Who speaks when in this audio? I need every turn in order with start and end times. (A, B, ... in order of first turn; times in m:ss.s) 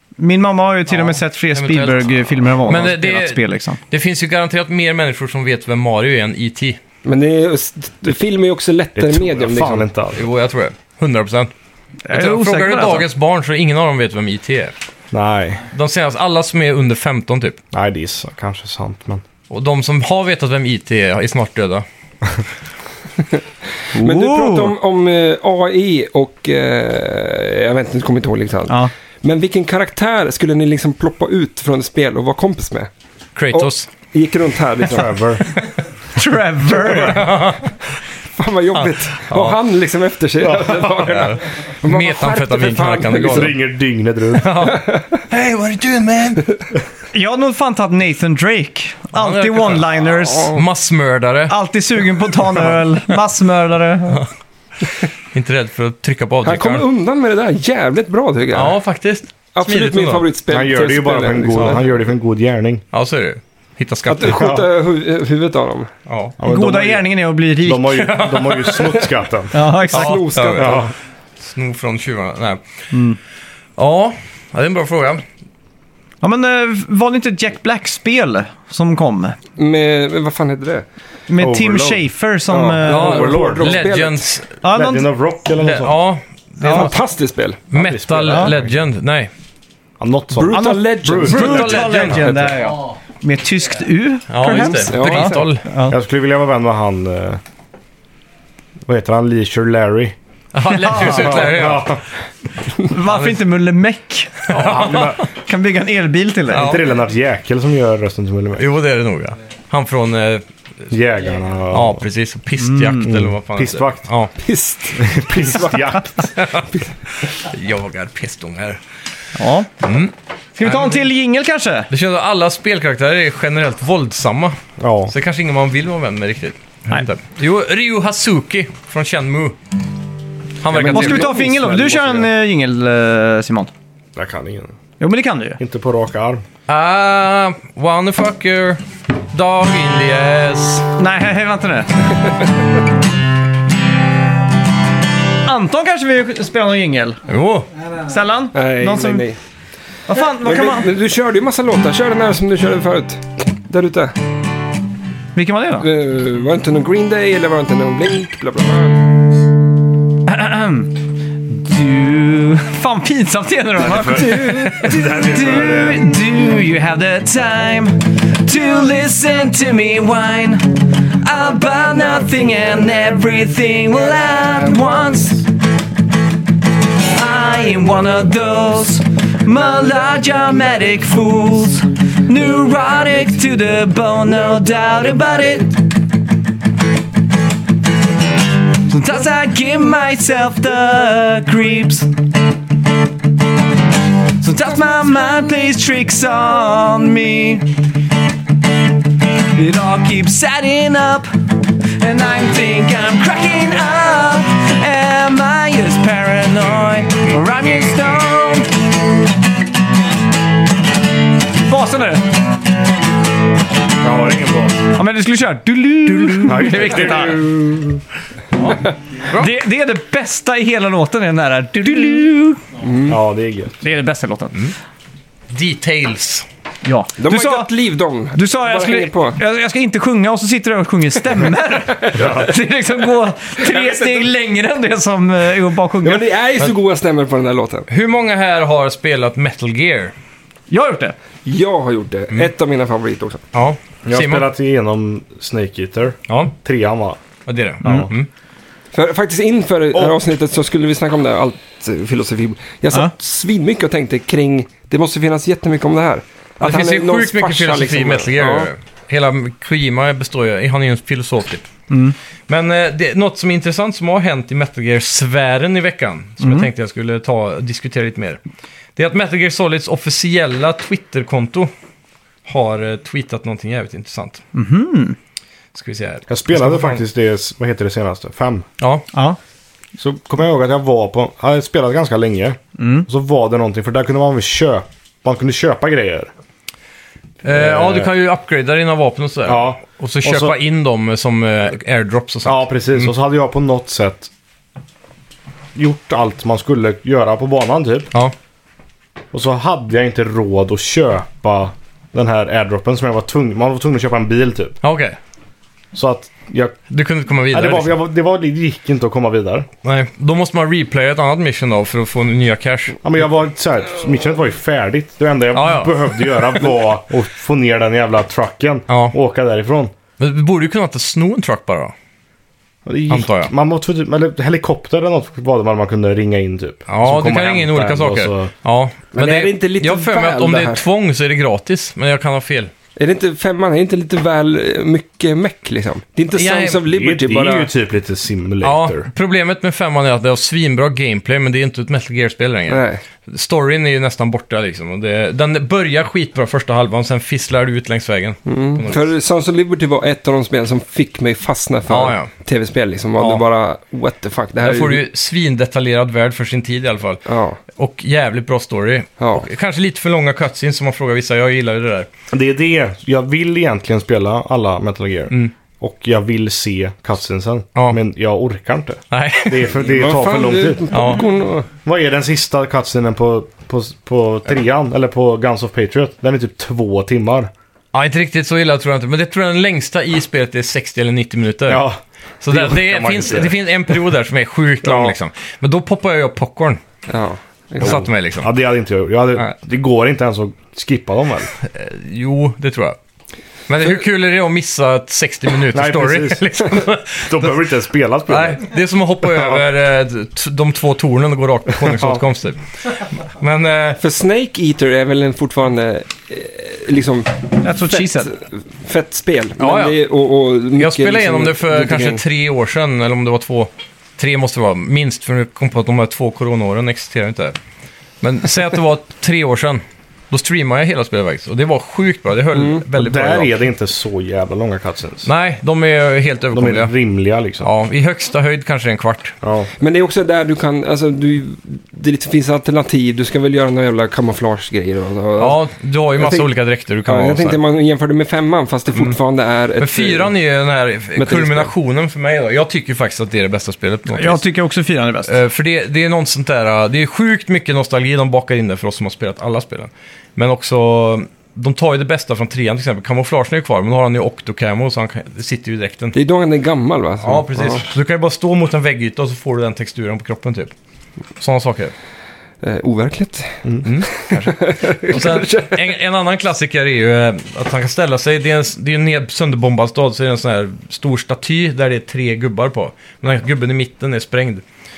0:00.2-0:03.8 A
0:00.9-0:06.8 B
0:07.0-0:09.9 C
0:08.9-0:10.2 D
0:10.1-0:11.5 B
0:12.0-0:13.0 A
0:12.1-0:14.7 B
0:15.1-0:15.6 D
0:15.7-0:17.6 B
0:17.7-0:19.2 D
0:19.5-0:21.8 B
0:23.9-0:32.9 C
0:23.9-0:24.7 A
0:33.3-0:33.9 B
0:33.5-0:35.4 C
0:34.8-0:35.4 D
0:36.1-0:37.3 A
0:36.9-0:37.8 B
0:38.4-0:43.5 C
0:38.7-0:39.6 B
0:40.4-0:41.3 D
0:40.9-0:43.5 B
0:43.2-0:44.7 D
0:44.3-0:46.6 B
0:44.6-0:45.0 C
0:47.1-0:50.6 A
0:49.1-0:51.5 B
0:50.3-0:50.6 C
0:51.5-0:54.2 A
0:55.3-0:56.8 B
0:56.4-0:58.8 C
0:58.5-1:00.3 B
0:59.5-1:01.8 C
1:00.5-1:02.8 D
1:02.9-1:04.6 B
1:04.1-1:05.9 C
1:04.3-1:04.6 D
1:06.1-1:06.3 B
1:06.4-1:07.0 D
1:06.4-1:08.0 A
1:07.6-1:09.7 D
1:07.9-1:09.1 B
1:09.5-1:10.3 A
1:09.9-1:10.9 C
1:09.9-1:10.8 B
1:10.6-1:10.9 D
1:11.4-1:12.6 B
1:12.9-1:13.2 A
1:13.8-1:15.2 B
1:16.2-1:19.4 A
1:19.6-1:20.8 C
1:21.3-1:23.4 A
1:21.4-1:22.0 D
1:22.5-1:24.3 C
1:22.8-1:24.5 B
1:22.9-1:23.8 D
1:24.6-1:25.1 A
1:24.7-1:26.0 D
1:25.6-1:27.0 B
1:26.6-1:26.9 A
1:26.6-1:27.6 C
1:27.7-1:29.3 B
1:27.7-1:28.7 D
1:30.0-1:32.5 D
1:30.3-1:31.9 C
1:30.5-1:36.0 A
1:31.2-1:32.6 B
1:34.3-1:35.6 B
1:34.4-1:35.5 C
1:35.9-1:37.4 D
1:38.8-1:40.1 D
1:40.5-1:41.9 B
1:40.7-1:41.5 A
1:40.9-1:42.0 D
1:42.8-1:46.8 A
1:42.9-1:43.4 B
1:44.5-1:45.2 B
1:44.5-1:45.2 D
1:46.5-1:48.7 D
1:46.5-1:46.8 B
1:48.6-1:50.4 B
1:50.9-1:52.0 D
1:51.7-1:54.3 B
1:52.6-1:53.1 A
1:53.0-1:54.1 D
1:54.4-1:56.9 C
1:55.0-1:56.3 D
1:56.3-1:56.7 B
1:57.2-1:58.8 B
1:59.3-1:59.7 A
1:59.8-2:01.0 B
2:00.6-2:01.9 A
2:01.9-2:04.6 B
2:04.8-2:05.1 D
2:05.1-2:09.6 B
2:10.6-2:11.3 B
2:10.7-2:12.3 C
2:10.8-2:13.7 A
2:14.2-2:14.7 D
2:15.0-2:15.6 A
2:15.6-2:16.4 D
2:16.7-2:20.9 B
2:21.0-2:22.2 A
2:25.4-2:27.2 A
2:27.3-2:27.7 B
2:28.0-2:29.2 A
2:28.5-2:29.4 C
2:30.1-2:30.9 A
2:30.2-2:34.1 C
2:35.3-2:35.9 A
2:35.8-2:39.1 C
2:40.2-2:55.5 A
2:43.8-2:46.1 D
2:44.4-2:44.7 C
2:57.0-3:05.8 A
3:08.8-3:12.1 A
3:14.4-3:17.7 A
3:19.5-3:21.3 A
3:22.0-3:28.7 A
3:31.6-3:32.4 A
3:34.0-3:34.9 D
3:34.9-3:37.4 A
3:36.4-3:38.0 D
3:38.6-3:39.5 B
3:39.3-3:42.6 A
3:42.8-3:43.2 C
3:43.1-3:43.8 D
3:43.8-3:44.6 A
3:45.5-3:46.4 B
3:46.8-3:47.7 A
3:47.2-3:49.4 C
3:48.3-3:56.2 A
3:52.0-3:52.5 C
3:53.6-3:54.3 C
3:56.0-3:57.9 C
3:57.9-4:00.1 B
4:00.7-4:01.2 A
4:01.4-4:03.4 C
4:03.5-4:04.5 B
4:04.0-4:07.2 D
4:06.3-4:06.5 B
4:07.5-4:08.3 B
4:07.8-4:08.1 D
4:08.9-4:18.7 C
4:16.6-4:21.7 B
4:21.9-4:22.2 A
4:22.5-4:28.4 B
4:26.4-4:26.7 A
4:29.0-4:31.7 B
4:32.4-4:34.4 B
4:34.5-4:35.2 A
4:35.7-4:37.0 B
4:36.3-4:38.6 D
4:38.8-4:39.0 B
4:39.1-4:39.4 A
4:40.0-4:46.3 D
4:42.8-4:43.1 A
4:47.4-4:53.1 B
4:47.5-4:48.1 D
4:49.4-4:50.5 D
4:52.4-4:54.3 D
4:55.7-4:58.1 D
4:59.3-5:04.8 D
5:04.8-5:05.2 B
5:05.9-5:06.8 D
5:06.9-5:07.9 B
5:07.5-5:09.7 D
5:09.8-5:13.0 B
5:13.0-5:19.9 D
5:15.5-5:16.6 B
5:18.9-5:19.1 B
5:20.2-5:21.9 B
5:22.8-5:28.5 D
5:23.1-5:23.5 B
5:26.9-5:32.7 B
5:29.1-5:30.8 C
5:33.0-5:37.7 C
5:36.3-5:36.8 B
5:36.8-5:39.1 D
5:38.6-5:49.0 B
5:42.7-5:43.0 C
5:48.5-5:55.0 C
5:51.9-5:52.3 B
5:53.2-5:53.4 B
5:54.6-6:02.1 B
5:57.3-5:57.6 C
5:59.2-5:59.4 C
6:02.3-6:10.9 D
6:09.1-6:09.8 B
6:09.8-6:11.7 C
6:10.9-6:11.3 B
6:11.8-6:17.5 D
6:17.9-6:21.8 B
6:21.7-6:23.6 D
6:22.4-6:26.8 B
6:24.8-6:25.1 D
6:27.1-6:28.0 C
6:27.8-6:28.5 B
6:27.8-6:31.5 D
6:31.6-6:33.0 B
6:33.7-6:37.6 B
6:35.7-6:38.6 D
6:38.3-6:44.0 B
6:39.3-6:39.6 D
6:41.7-6:42.2 D
6:44.0-6:52.2 C
6:47.6-6:48.3 A
6:49.6-6:50.0 B
6:50.8-6:57.6 B
6:58.2-7:03.5 B
7:02.5-7:02.8 C
7:02.9-7:05.3 D
7:05.2-7:06.9 B
7:06.5-7:07.7 D
7:07.6-7:09.4 B
7:09.4-7:09.7 D
7:09.8-7:15.6 C
7:15.4-7:17.6 B
7:16.2-7:16.5 C
7:17.0-7:20.3 C
7:19.8-7:24.4 B
7:21.2-7:21.7 C
7:24.1-7:25.3 A
7:25.2-7:36.2 B
7:36.1-7:37.8 C
7:37.2-7:40.7 B
7:41.4-7:41.9 B
7:42.6-7:43.6 C
7:43.8-7:54.6 B
7:44.2-7:45.8 C